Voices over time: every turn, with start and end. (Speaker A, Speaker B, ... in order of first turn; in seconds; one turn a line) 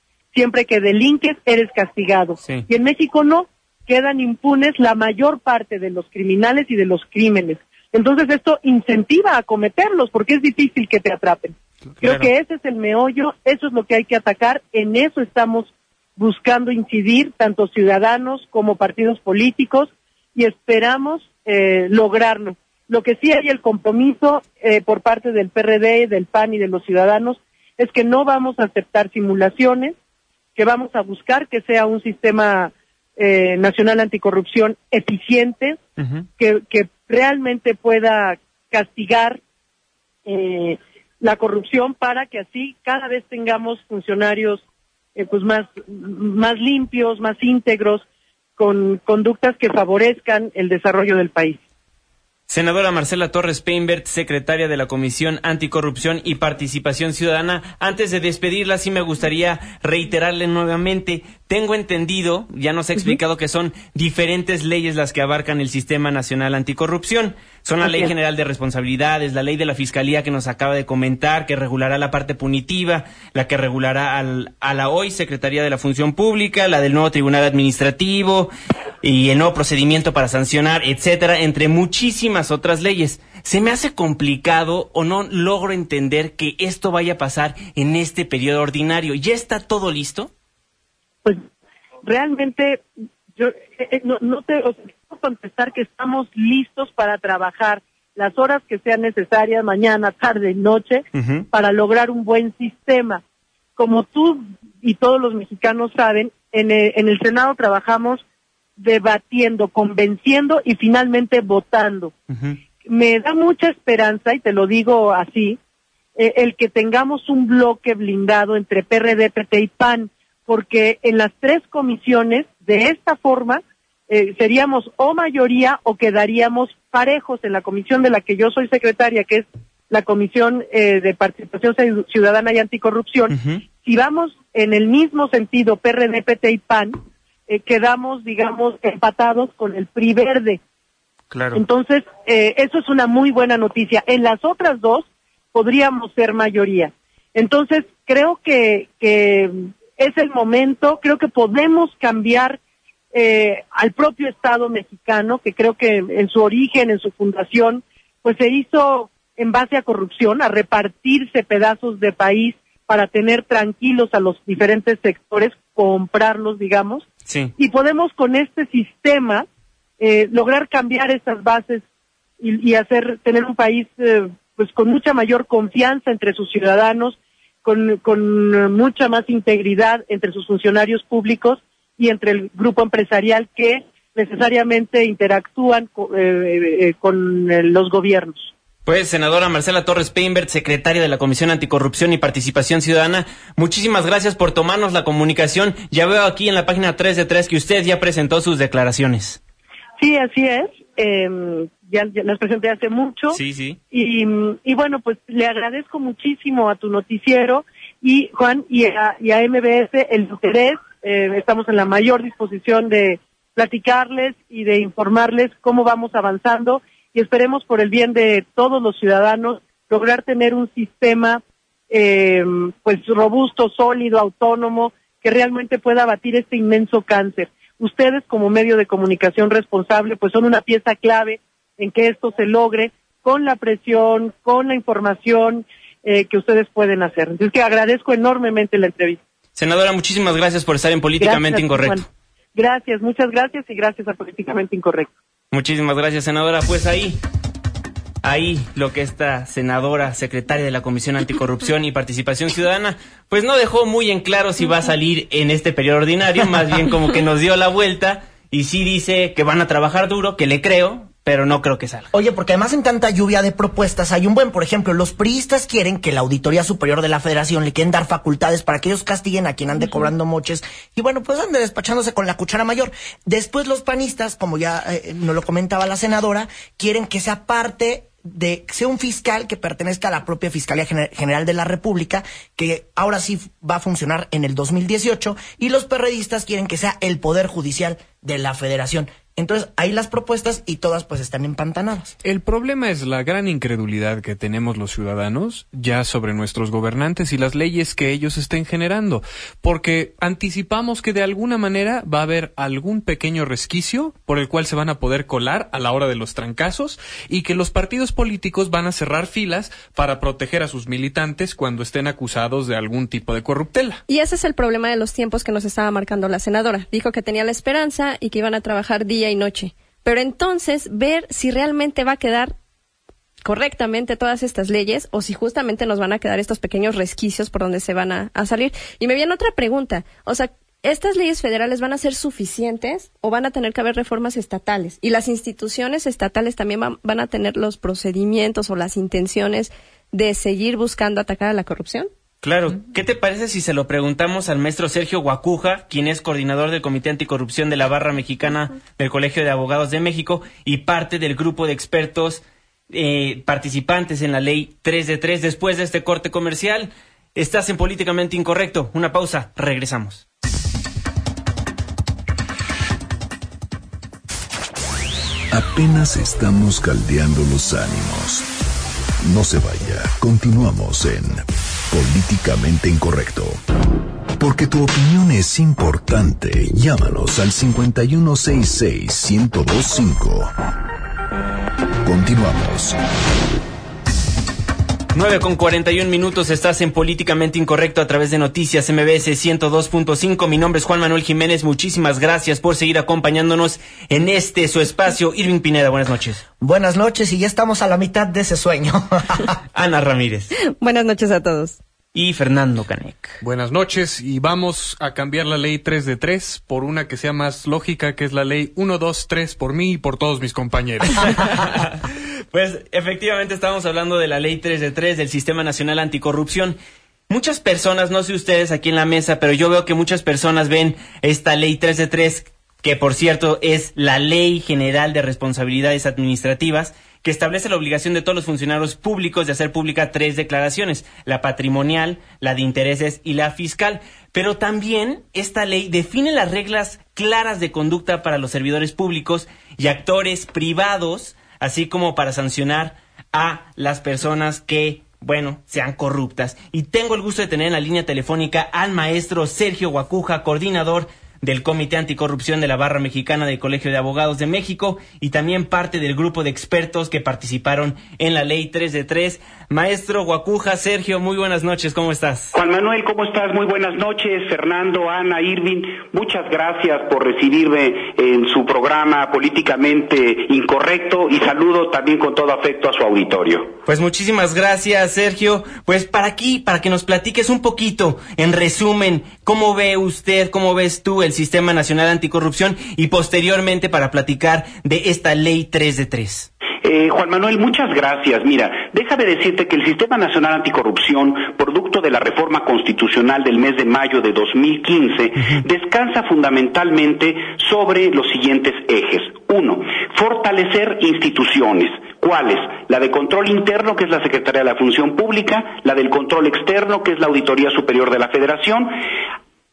Speaker A: 0.3-29.9
Speaker B: 11.9-12.3
Speaker A: 30.6-35.8
Speaker B: 36.0-36.2
Speaker A: 36.4-39.4
Speaker A: 40.2-44.6
Speaker A: 45.1-48.0
Speaker A: 48.6-51.6
Speaker B: 52.5-78.5
Speaker A: 67.8-68.1
Speaker B: 79.0-90.3
Speaker A: 92.0-92.8
Speaker A: 93.3-103.2
Speaker B: 101.1-101.5
Speaker A: 103.8-108.2
Speaker A: 108.8-112.1
Speaker B: 112.3-112.6
Speaker A: 112.8-115.6
Speaker A: 116.2-140.6
Speaker B: 133.3-133.6
Speaker B: 141.3-141.6
Speaker A: 141.5-152.6
Speaker A: 153.1-167.1
Speaker B: 167.2-167.5
Speaker A: 167.6-169.5
Speaker A: 170.0-171.8
Speaker A: 172.4-188.5
Speaker B: 188.8-199.4
Speaker A: 200.0-203.4
Speaker B: 203.3-203.8
Speaker A: 203.9-239.2
Speaker B: 239.6-242.0
Speaker A: 241.2-242.0
Speaker A: 242.5-245.1
Speaker B: 245.5-247.2
Speaker B: 248.2-262.1
Speaker C: 262.1-292.1
Speaker D: 292.2-314.0
Speaker E: 314.1-322.5
Speaker E: 323.4-342.1
Speaker B: 342.4-360.2
Speaker F: 365.5-368.5
Speaker F: 369.2-373.6
Speaker F: 374.4-380.5
Speaker F: 382.0-383.0
Speaker B: 385.1-396.4
Speaker C: 396.6-399.6
Speaker B: 399.7-400.5
Speaker E: 400.6-401.8
Speaker B: 402.1-403.4
Speaker D: 403.4-411.4
Speaker B: 411.4-416.8
Speaker B: 417.3-462.5
Speaker G: 462.5-473.7
Speaker B: 473.9-486.5
Speaker G: 486.8-508.9
Speaker B: 495.4-495.6